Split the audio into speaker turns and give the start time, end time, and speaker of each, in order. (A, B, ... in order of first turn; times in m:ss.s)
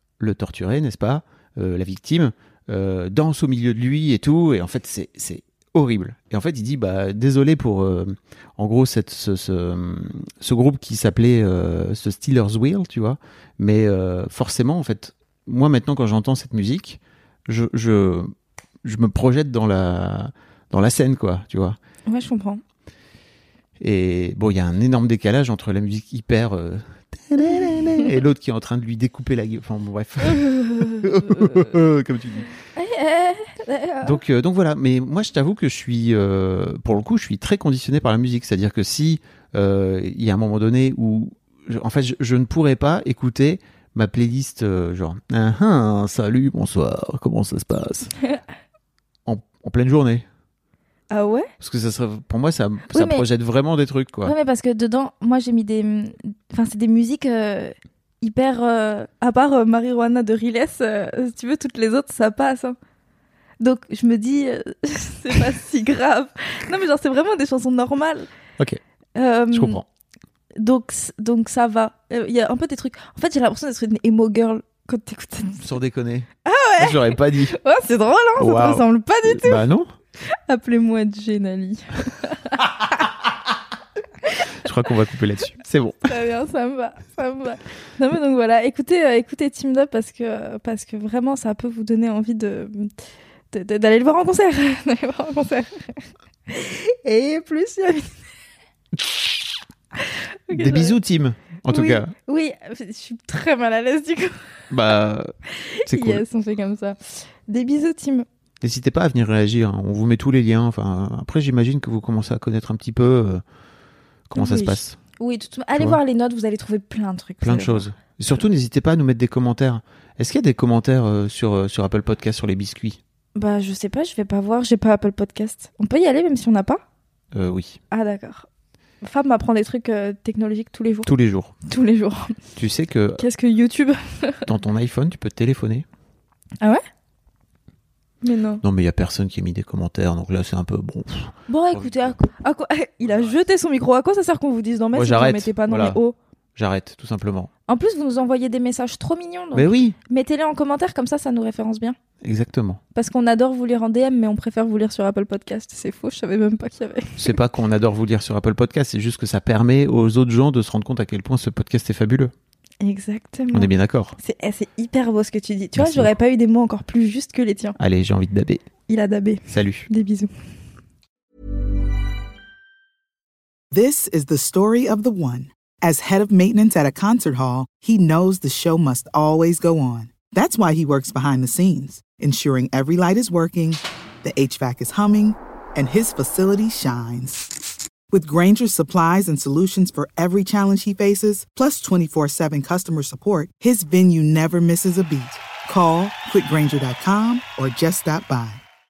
0:00.2-0:18.3 A
0:18.8-0:21.8 A
0:22.1-0:22.6 B
0:23.8-0:32.5 A
0:30.3-0:31.1 B
0:32.8-0:34.2 B
0:34.0-0:48.1 A
0:49.3-0:50.2 A
0:51.1-0:51.5 B
0:51.6-0:54.4 A
0:52.9-0:53.3 B
0:54.2-1:02.8 B
1:03.6-1:08.3 B
1:09.2-1:09.8 B
1:09.5-1:09.8 A
1:10.6-1:15.7 B
1:15.6-1:17.6 A
1:16.4-1:19.6 B
1:18.4-1:19.9 A
1:20.3-1:23.0 B
1:24.6-1:26.1 A
1:26.0-1:32.9 B
1:33.5-1:38.1 B
1:40.5-1:42.1 A
1:40.5-1:41.0 B
1:41.7-1:44.4 B
1:44.7-1:45.3 A
1:45.7-1:48.3 B
1:45.9-1:46.2 A
1:48.6-1:53.4 A
1:54.3-1:55.0 A
1:54.4-1:57.9 B
1:57.4-2:03.0 A
2:03.4-2:06.8 B
2:07.3-2:07.8 A
2:07.9-2:08.5 B
2:09.0-2:11.1 B
2:11.1-2:11.5 A
2:11.7-2:12.4 B
2:12.6-2:13.3 A
2:13.2-2:14.5 B
2:14.5-2:15.8 A
2:18.2-2:18.6 B
2:18.6-2:22.2 A
2:21.5-2:26.2 B
2:23.0-2:23.4 A
2:24.9-2:26.0 A
2:26.6-2:27.5 A
2:27.7-2:32.0 B
2:29.5-2:30.0 A
2:32.2-2:32.8 A
2:32.9-2:37.3 B
2:37.2-2:42.3 A
2:42.8-2:47.8 B
2:43.5-2:44.2 A
2:45.8-2:46.1 A
2:47.8-2:48.6 A
2:48.9-2:50.3 B
2:49.5-2:49.9 A
2:53.7-3:07.5 C
3:08.1-3:18.6 C